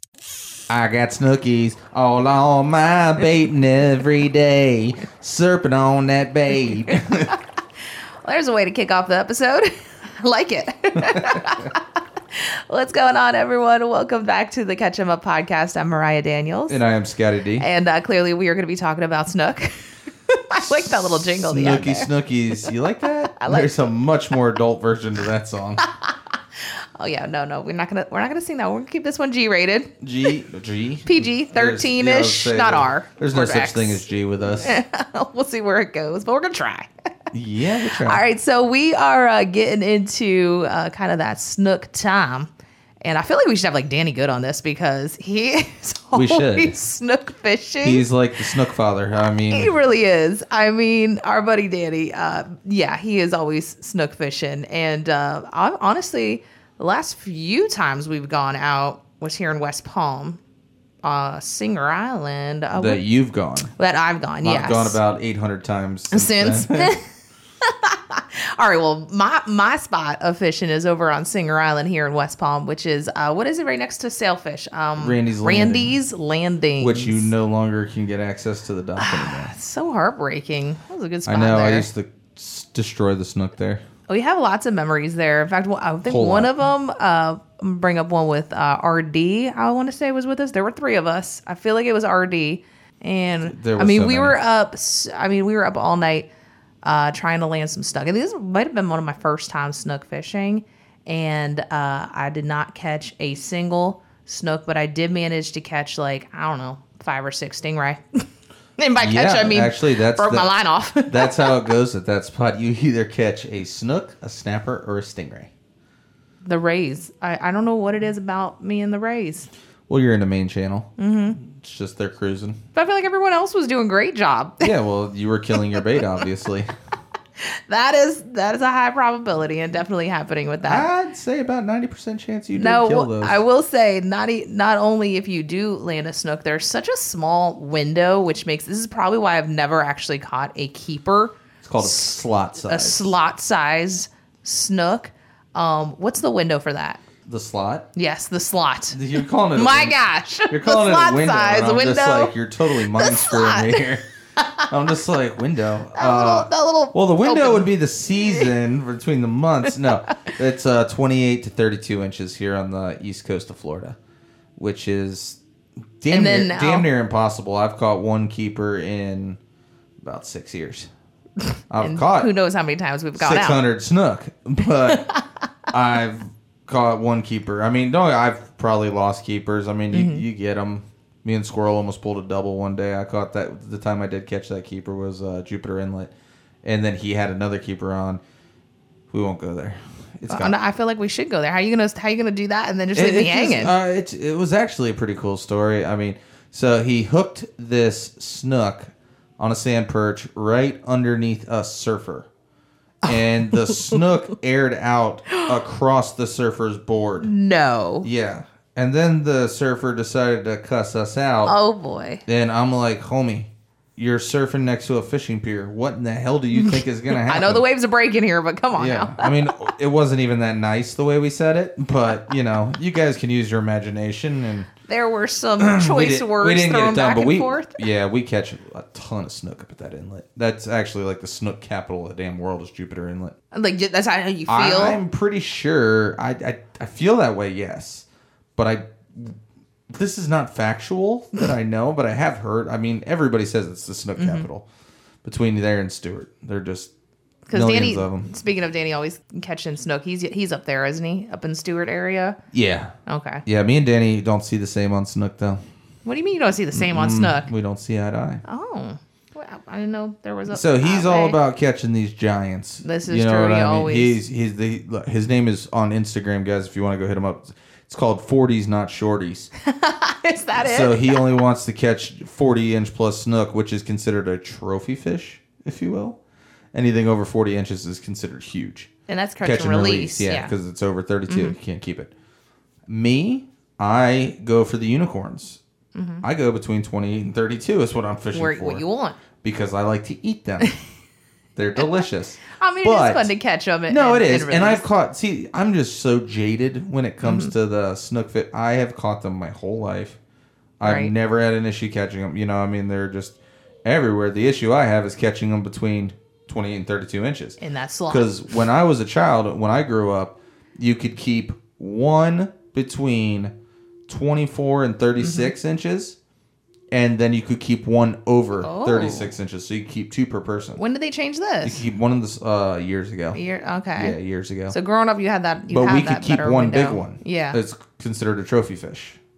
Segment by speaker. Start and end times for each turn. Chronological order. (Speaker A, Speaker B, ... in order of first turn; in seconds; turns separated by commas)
Speaker A: 0.7-7.4, Speaker B: 8.2-16.8, Speaker A: 11.0-11.7, Speaker A: 16.7-17.7, Speaker B: 17.6-19.8, Speaker B: 20.3-22.1, Speaker A: 20.5-25.8, Speaker B: 23.3-23.7, Speaker B: 25.8-29.9, Speaker A: 30.0-34.8, Speaker B: 31.1-34.0, Speaker B: 34.6-36.9, Speaker A: 37.3-38.2, Speaker B: 37.9-42.5, Speaker B: 43.0-48.1, Speaker A: 46.1-46.8, Speaker A: 47.8-49.7, Speaker B: 49.5-60.4, Speaker B: 61.0-63.0, Speaker A: 62.7-63.7, Speaker B: 63.7-65.0, Speaker A: 64.4-66.9, Speaker B: 66.1-67.0, Speaker B: 67.6-77.3, Speaker A: 75.0-75.9, Speaker A: 76.8-79.5, Speaker B: 79.0-81.9, Speaker A: 81.2-83.8, Speaker B: 84.1-96.3, Speaker A: 86.0-86.5, Speaker A: 93.5-94.4, Speaker B: 96.8-108.2, Speaker B: 108.8-111.6, Speaker A: 109.0-110.5, Speaker A: 111.0-115.5, Speaker B: 116.4-119.5, Speaker A: 119.9-122.6, Speaker B: 121.0-121.4, Speaker B: 122.7-124.7, Speaker A: 124.6-126.7, Speaker B: 126.0-126.2, Speaker B: 127.4-130.9, Speaker A: 130.6-133.4, Speaker B: 132.6-147.0, Speaker A: 141.6-143.1, Speaker A: 147.2-147.9, Speaker B: 147.9-153.8, Speaker A: 148.9-150.0, Speaker A: 150.5-154.0, Speaker B: 154.4-154.7, Speaker A: 154.6-164.0, Speaker B: 155.9-157.7, Speaker B: 158.2-158.5, Speaker A: 164.6-165.4, Speaker A: 166.0-169.4, Speaker B: 166.1-166.9, Speaker A: 170.0-170.9, Speaker A: 171.7-172.3, Speaker B: 171.8-173.6, Speaker A: 173.1-175.1, Speaker B: 174.9-175.2, Speaker A: 175.7-186.1, Speaker B: 179.9-180.2, Speaker A: 186.6-188.2, Speaker A: 189.1-190.6, Speaker B: 190.3-193.7, Speaker A: 192.9-202.3, Speaker B: 203.0-204.0, Speaker A: 203.0-207.3, Speaker B: 207.2-208.1, Speaker A: 208.0-211.5, Speaker B: 211.4-212.2, Speaker A: 212.2-217.6, Speaker B: 216.5-219.4, Speaker A: 218.7-224.7, Speaker B: 224.8-227.8, Speaker A: 225.6-233.3, Speaker B: 233.5-235.0, Speaker A: 234.5-239.4, Speaker A: 239.9-244.6, Speaker B: 244.2-244.5, Speaker A: 245.2-246.9, Speaker B: 247.5-252.4, Speaker A: 247.5-248.3, Speaker A: 252.5-252.9, Speaker B: 253.1-253.4, Speaker A: 253.4-255.6, Speaker B: 256.0-257.5, Speaker A: 256.7-258.4, Speaker B: 258.4-261.4, Speaker A: 260.5-269.5, Speaker B: 262.8-264.2, Speaker B: 269.6-271.2, Speaker A: 270.6-276.2, Speaker A: 276.7-278.9, Speaker B: 279.1-280.5, Speaker A: 279.4-282.1, Speaker B: 281.3-281.6, Speaker A: 282.9-285.6, Speaker B: 285.9-286.2, Speaker A: 286.2-288.8, Speaker B: 288.3-289.2, Speaker A: 289.4-290.7, Speaker A: 291.6-293.3, Speaker B: 291.8-294.8, Speaker A: 293.9-300.2, Speaker B: 297.2-297.5, Speaker A: 300.8-313.5, Speaker B: 300.8-301.1, Speaker B: 307.6-308.3, Speaker A: 314.1-316.2, Speaker B: 315.2-315.5, Speaker A: 316.9-320.8, Speaker B: 318.6-319.3, Speaker B: 320.8-321.8, Speaker A: 321.6-323.4, Speaker B: 323.3-324.2, Speaker A: 323.9-324.8, Speaker B: 324.7-327.6, Speaker A: 325.7-329.2